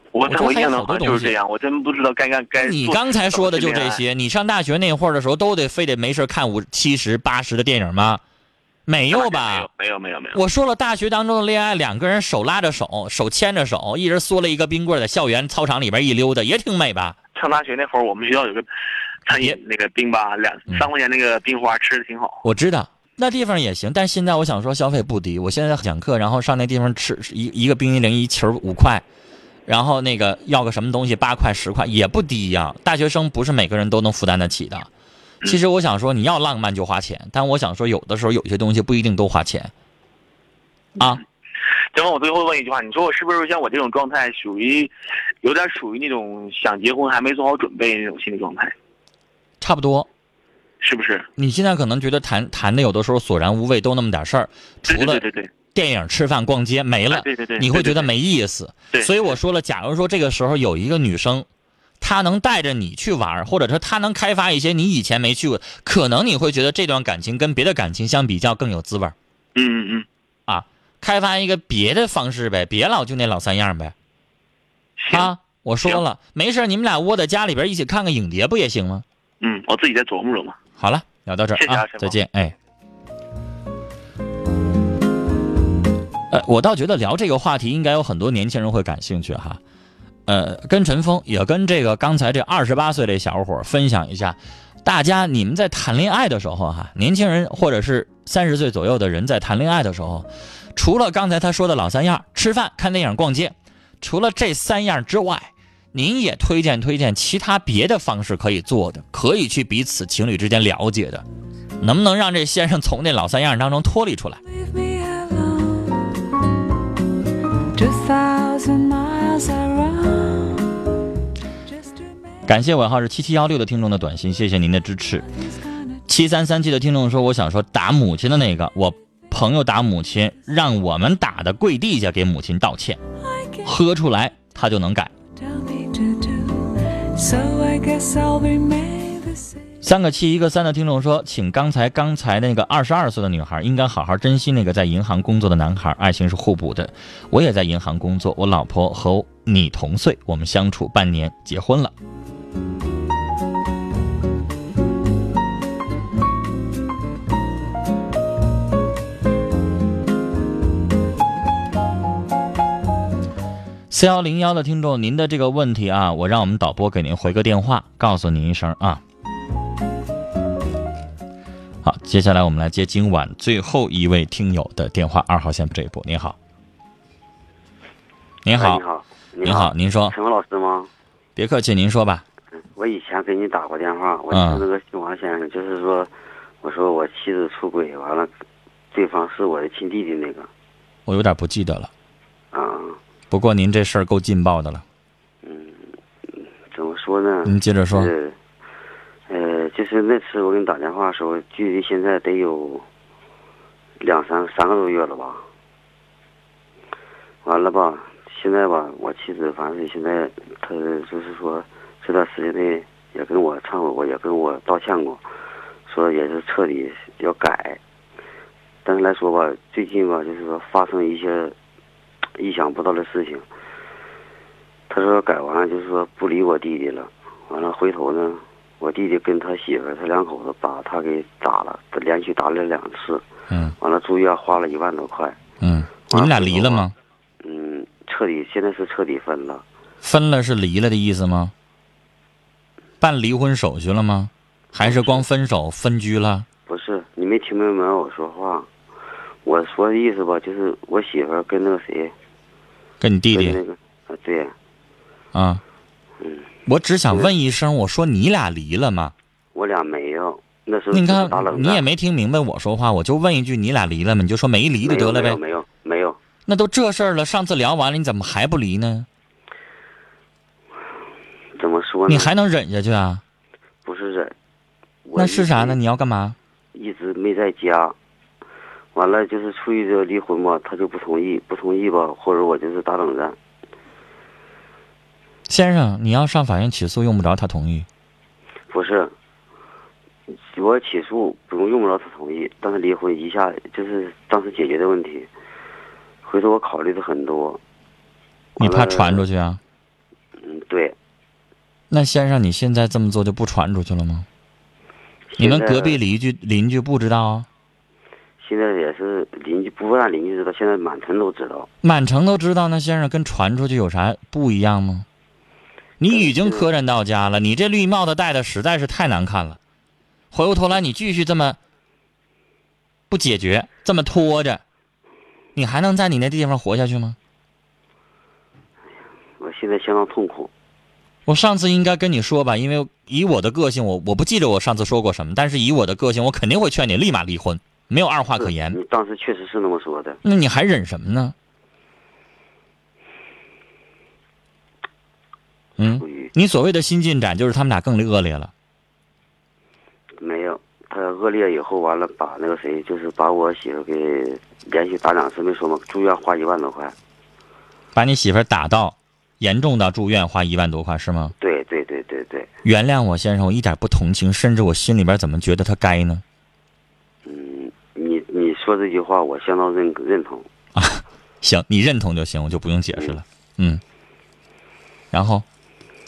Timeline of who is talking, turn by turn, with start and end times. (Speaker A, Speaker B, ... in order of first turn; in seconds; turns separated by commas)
Speaker A: 0.1-4.0, Speaker B: 0.2-1.4, Speaker B: 2.6-8.2, Speaker B: 8.9-9.7, Speaker A: 9.1-10.4, Speaker B: 10.3-17.1, Speaker A: 17.3-18.6, Speaker A: 19.2-22.4, Speaker B: 19.3-19.6, Speaker B: 22.4-29.0, Speaker B: 29.7-34.9, Speaker B: 35.4-39.7, Speaker A: 41.9-44.9, Speaker A: 45.4-48.7, Speaker B: 49.6-50.1, Speaker A: 50.8-51.3, Speaker B: 51.4-61.5, Speaker A: 54.9-55.5, Speaker A: 57.1-58.1, Speaker A: 58.9-59.2, Speaker B: 62.0-69.1, Speaker A: 69.5-70.0, Speaker B: 70.5-73.9, Speaker A: 75.0-75.3, Speaker B: 75.1-79.0, Speaker A: 79.4-80.6, Speaker B: 80.8-82.5, Speaker A: 81.5-82.2, Speaker B: 86.3-89.6, Speaker B: 90.2-111.2, Speaker B: 111.8-114.4, Speaker C: 114.5-116.1, Speaker C: 117.7-120.8, Speaker C: 121.7-122.4, Speaker B: 122.5-125.2, Speaker C: 125.4-126.0, Speaker B: 126.1-133.0, Speaker C: 133.2-133.7, Speaker B: 133.6-135.1, Speaker C: 135.3-139.6, Speaker B: 139.8-151.9, Speaker B: 163.9-169.0, Speaker B: 171.8-176.3, Speaker B: 178.4-178.8, Speaker D: 178.5-180.9, Speaker B: 179.4-180.1, Speaker B: 181.3-182.2, Speaker D: 182.8-186.1, Speaker B: 184.3-184.6, Speaker D: 186.6-188.3, Speaker D: 188.9-190.5, Speaker B: 191.1-191.9, Speaker D: 192.5-193.0, Speaker B: 193.3-194.8, Speaker D: 195.4-198.4, Speaker B: 197.4-198.1, Speaker D: 199.3-202.8, Speaker D: 204.0-205.4, Speaker D: 207.4-215.2, Speaker D: 215.9-217.8, Speaker D: 218.8-221.5, Speaker D: 222.4-223.4, Speaker D: 224.9-233.2, Speaker D: 233.8-235.4, Speaker B: 235.6-236.9, Speaker D: 236.1-236.9, Speaker D: 237.4-239.6, Speaker B: 240.0-241.5, Speaker B: 243.0-246.5, Speaker D: 244.8-245.2, Speaker D: 246.7-248.7, Speaker D: 249.4-252.1, Speaker B: 253.0-253.6, Speaker D: 253.3-254.5, Speaker B: 255.3-255.6, Speaker D: 256.2-256.5, Speaker B: 256.6-259.1, Speaker D: 259.5-261.9, Speaker B: 260.9-265.4, Speaker D: 264.8-266.2, Speaker B: 266.5-269.1, Speaker D: 271.6-272.3, Speaker B: 272.1-273.2, Speaker D: 273.8-274.3, Speaker D: 275.0-275.8, Speaker B: 275.1-276.4, Speaker D: 276.7-277.9, Speaker D: 278.9-283.4, Speaker B: 285.5-287.9, Speaker D: 288.7-289.1, Speaker D: 290.5-295.3, Speaker D: 296.2-297.6, Speaker D: 298.6-299.2, Speaker B: 298.6-299.6, Speaker D: 300.4-300.9, Speaker B: 301.9-304.3, Speaker D: 305.3-306.0, Speaker B: 305.4-307.5, Speaker D: 308.4-311.7, Speaker B: 311.8-315.1, Speaker B: 316.0-319.6, Speaker D: 316.1-316.7, Speaker B: 320.3-321.6, Speaker B: 323.1-324.6, Speaker B: 325.6-327.2, Speaker D: 329.4-330.5, Speaker B: 331.2-338.8, Speaker D: 338.4-340.2, Speaker B: 340.2-341.3, Speaker B: 345.8-348.5, Speaker D: 345.8-346.3, Speaker D: 350.2-356.9, Speaker B: 357.9-361.3, Speaker D: 361.4-362.5, Speaker B: 362.6-366.2, Speaker D: 367.2-370.5, Speaker B: 370.8-373.8, Speaker B: 375.1-375.4